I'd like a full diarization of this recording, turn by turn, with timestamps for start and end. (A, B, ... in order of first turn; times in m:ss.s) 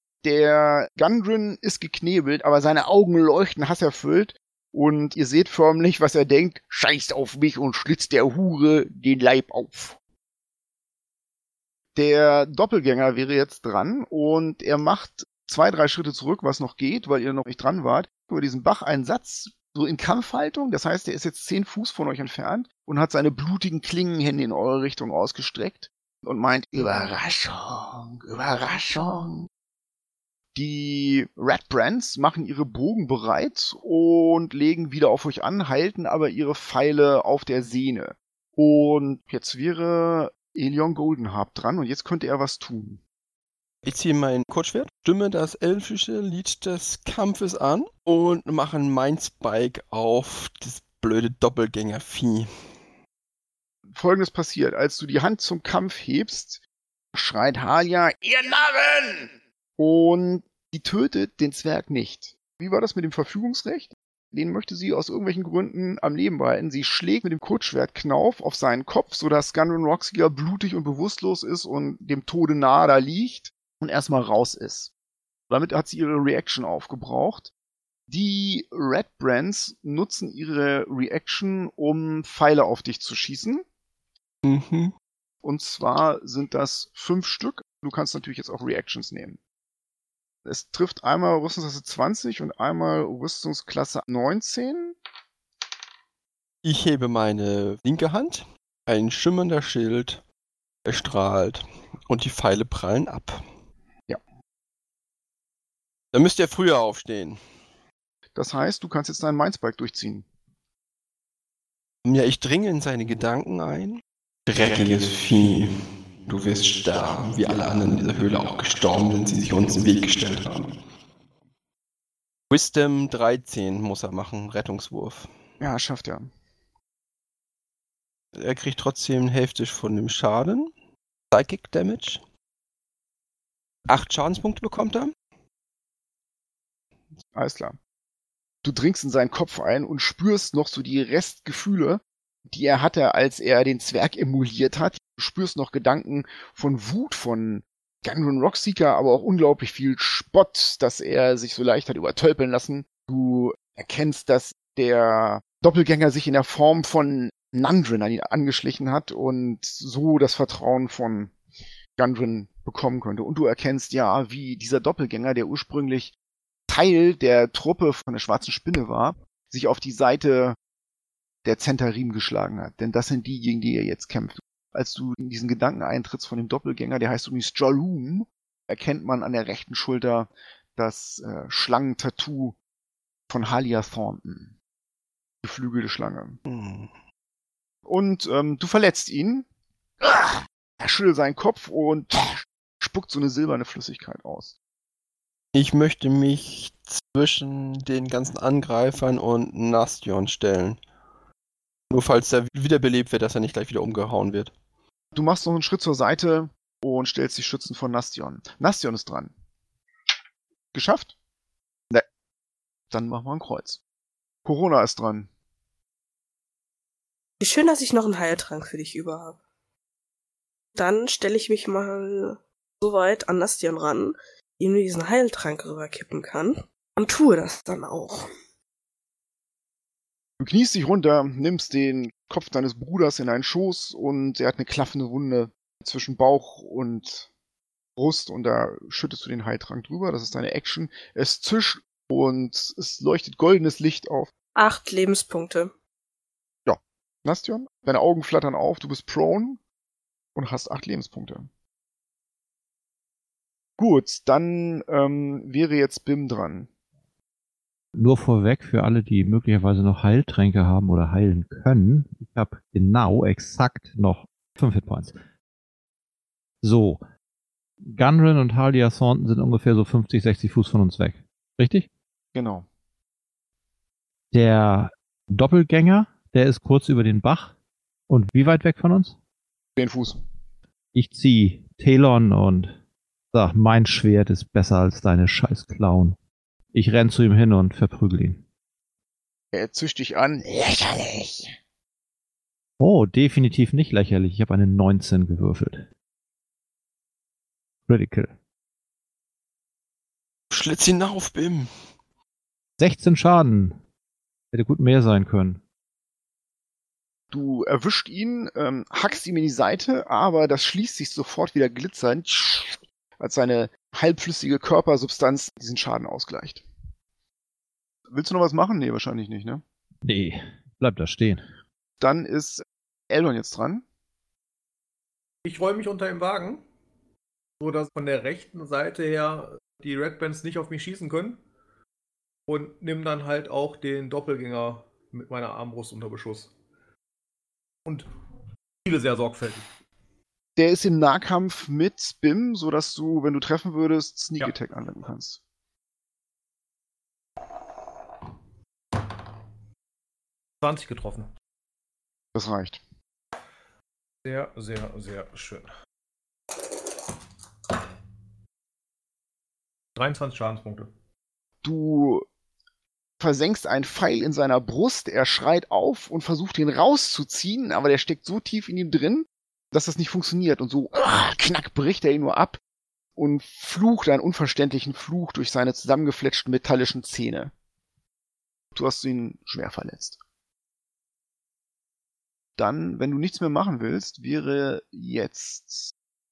0:00.2-0:10.0 A
0:11.9-0:29.5 A
0:30.5-0:43.0 A
0:43.8-0:52.7 B
0:53.9-0:56.6 A
0:57.1-1:14.9 A
1:15.5-1:17.5 A
1:18.1-1:23.6 A
1:24.4-1:24.9 B
1:25.4-1:29.4 A
1:30.4-1:35.0 A
1:36.6-1:40.2 B
1:40.8-1:43.4 B
1:46.1-1:47.4 B
1:48.3-1:50.2 A
1:52.0-2:00.8 B
2:02.5-2:05.3 B
2:05.6-2:06.3 A
2:08.3-2:10.7 B
2:11.3-2:12.2 B
2:13.9-2:15.1 B
2:17.3-2:17.8 A
2:18.6-2:41.3 A
2:42.0-2:46.1 A
2:46.7-2:50.6 A
2:51.4-3:02.6 A
3:03.3-3:04.5 A
3:05.4-3:06.4 A
3:06.4-3:06.9 B
3:07.8-3:09.5 A
3:10.0-3:14.6 A
3:15.5-3:20.8 B
3:21.9-3:24.5 B
3:25.1-3:29.3 A
3:30.7-3:31.1 A
3:32.9-3:33.8 A
3:34.4-3:35.3 A
3:37.4-3:39.4 C
3:40.7-3:48.3 C
3:50.4-3:57.3 A
3:58.0-4:04.3 A
4:04.6-4:05.7 C
4:07.2-4:09.6 A
4:10.3-4:11.5 A
4:13.8-4:16.7 A
4:17.9-4:25.2 D
4:26.6-4:27.0 D
4:27.8-4:31.9 D
4:32.3-4:32.6 A
4:34.3-4:37.5 D
4:38.1-4:39.1 D
4:39.8-4:40.2 A
4:40.9-4:42.7 D
4:43.3-4:46.2 D
4:46.7-4:48.4 D
4:49.5-4:51.5 A
4:52.8-4:55.9 D
4:57.9-4:58.3 D
5:00.5-5:01.7 B
5:02.8-5:03.8 D
5:04.5-5:05.6 D
5:07.3-5:16.6 A
5:18.1-5:19.6 A
5:20.0-5:21.4 D
5:22.0-5:23.8 A
5:25.4-5:26.6 E
5:27.6-5:31.4 E
5:32.5-5:36.5 E
5:38.8-5:39.7 E
5:40.6-5:45.4 A
5:50.6-5:51.3 E
5:52.3-5:52.8 A
5:54.2-5:55.7 E
6:00.0-6:00.9 E
6:01.6-6:02.2 A
6:03.2-6:12.6 A
6:13.2-6:17.5 A
6:18.7-6:20.2 A
6:22.6-6:25.9 A